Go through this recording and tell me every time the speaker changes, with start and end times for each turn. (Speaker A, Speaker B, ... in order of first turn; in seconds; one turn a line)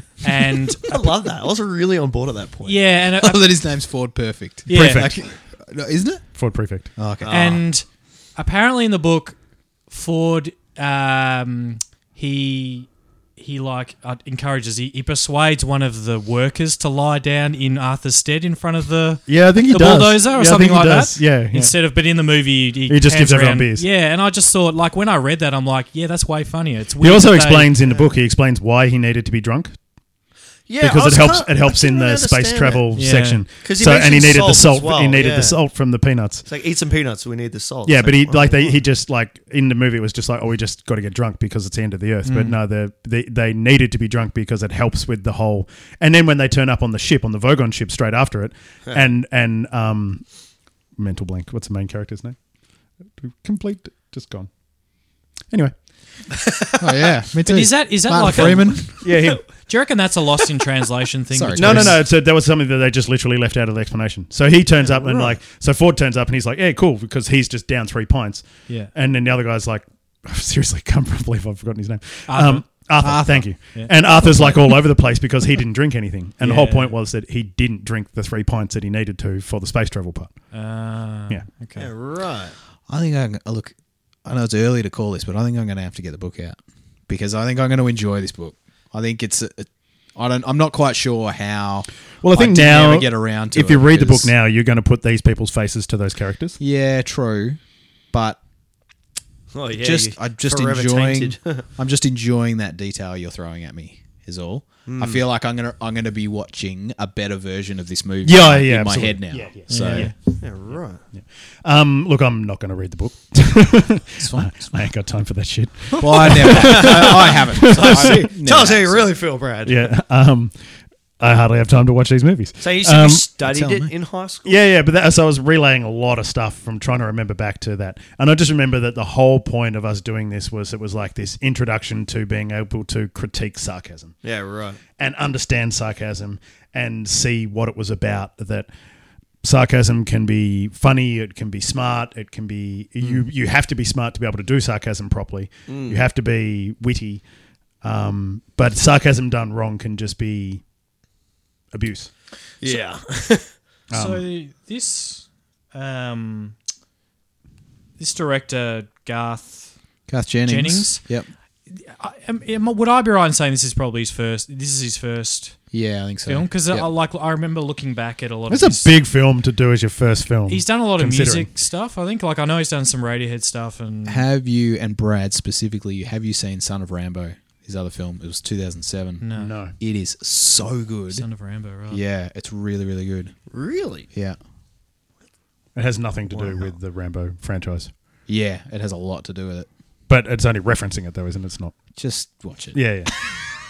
Speaker A: 0.2-0.9
Speaker B: 0.9-2.8
Speaker A: 2.6-3.5
Speaker C: 3.2-6.2
Speaker A: 4.7-5.1
Speaker D: 4.7-5.1
Speaker D: 6.3-6.9
Speaker C: 7.0-7.6
Speaker B: 7.2-7.6
Speaker A: 7.3-9.4
Speaker A: 9.9-27.7
Speaker D: 19.3-21.7
Speaker D: 22.9-23.9
Speaker D: 27.0-29.8
Speaker B: 27.8-28.1
Speaker B: 30.7-32.8
Speaker D: 30.8-36.5
Speaker A: 33.0-33.4
Speaker B: 33.6-35.6
Speaker B: 36.5-38.8
Speaker D: 37.9-50.3
Speaker A: 42.3-42.6
Speaker D: 51.0-52.4
Speaker D: 53.2-54.5
Speaker B: 56.3-57.1
Speaker C: 56.8-59.0
Speaker A: 57.5-58.9
Speaker D: 59.0-59.4
Speaker A: 59.5-62.0
Speaker C: 61.3-62.0
Speaker D: 61.6-80.4
Speaker B: 64.8-65.4
Speaker A: 68.7-68.9
Speaker A: 72.3-72.9
Speaker C: 73.0-73.5
Speaker C: 74.0-74.8
Speaker A: 76.4-77.0
Speaker A: 80.5-81.9
Speaker B: 81.8-82.5
Speaker C: 82.9-83.7
Speaker C: 84.2-86.6
Speaker C: 87.1-94.3
Speaker D: 92.2-96.6
Speaker C: 96.6-97.6
Speaker C: 98.1-98.4
Speaker B: 99.5-101.7
Speaker C: 99.8-110.1
Speaker B: 104.9-105.2
Speaker D: 108.2-110.2
Speaker A: 109.7-110.2
Speaker B: 110.4-111.0
Speaker D: 111.2-118.3
Speaker C: 114.2-114.9
Speaker C: 116.0-119.1
Speaker B: 116.0-119.9
Speaker D: 119.7-120.5
Speaker D: 121.2-123.3
Speaker B: 122.6-124.6
Speaker C: 123.5-123.9
Speaker D: 124.5-134.2
Speaker B: 134.2-134.8
Speaker D: 135.0-138.7
Speaker D: 139.4-147.2
Speaker B: 145.7-146.0
Speaker D: 147.8-150.6
Speaker D: 151.7-152.1
Speaker B: 152.6-153.5
Speaker D: 153.9-154.2
Speaker A: 153.9-156.6
Speaker A: 158.0-159.7
Speaker C: 160.1-161.3
Speaker A: 160.4-161.0
Speaker A: 161.7-165.6
Speaker C: 165.7-166.9
Speaker A: 166.3-168.9
Speaker D: 168.5-171.5
Speaker A: 170.5-174.2
Speaker C: 174.1-179.2
Speaker A: 179.2-179.5
Speaker D: 179.4-179.7
Speaker C: 179.8-181.3
Speaker A: 181.1-182.0
Speaker C: 181.9-183.3
Speaker B: 183.5-184.1
Speaker C: 184.1-184.4
Speaker D: 185.8-187.9
Speaker C: 188.3-189.7
Speaker D: 190.1-191.8
Speaker C: 192.0-192.8
Speaker D: 192.7-193.1